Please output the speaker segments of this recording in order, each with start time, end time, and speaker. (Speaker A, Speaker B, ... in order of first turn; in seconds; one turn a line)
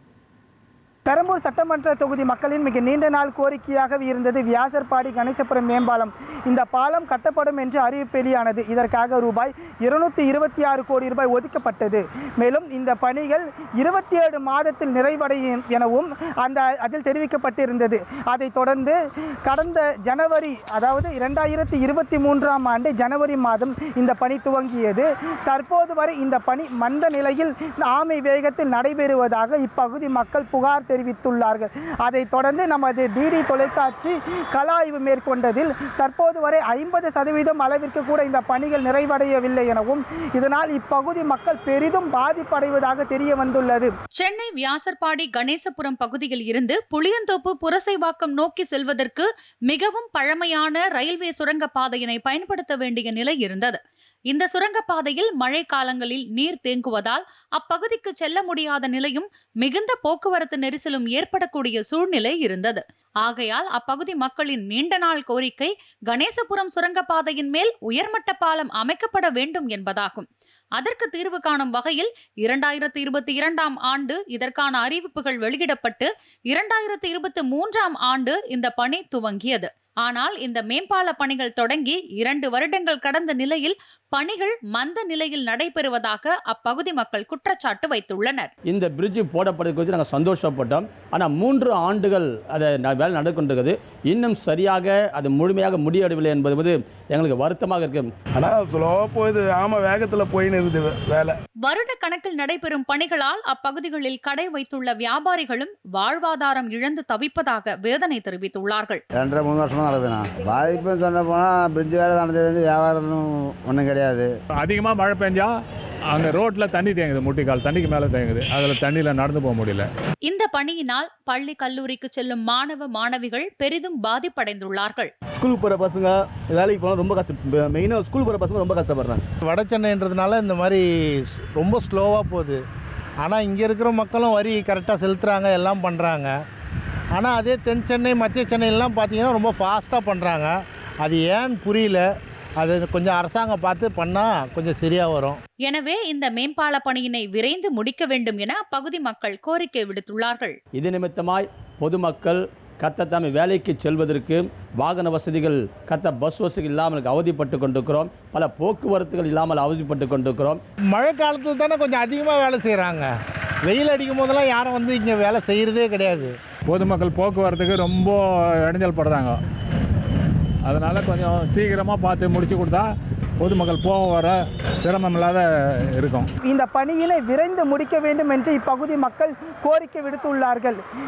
Speaker A: 1.1-43.9
Speaker B: 44.2-53.8
Speaker B: 54.3-88.5
Speaker C: 88.7-98.1
Speaker D: 98.6-101.1
Speaker B: 101.6-109.0
Speaker E: 109.2-114.3
Speaker F: 114.6-115.5
Speaker F: 116.1-119.9
Speaker B: 120.3-125.1
Speaker G: 125.3-129.3
Speaker H: 129.4-132.6
Speaker H: 133.2-136.3
Speaker H: 137.1-142.1
Speaker H: 142.6-145.4
Speaker B: 145.7-150.6
Speaker C: 150.8-160.6
Speaker H: 160.9-163.1
Speaker H: 163.7-166.3
Speaker F: 166.7-169.4
Speaker F: 170.7-176.3
Speaker A: 176.5-180.8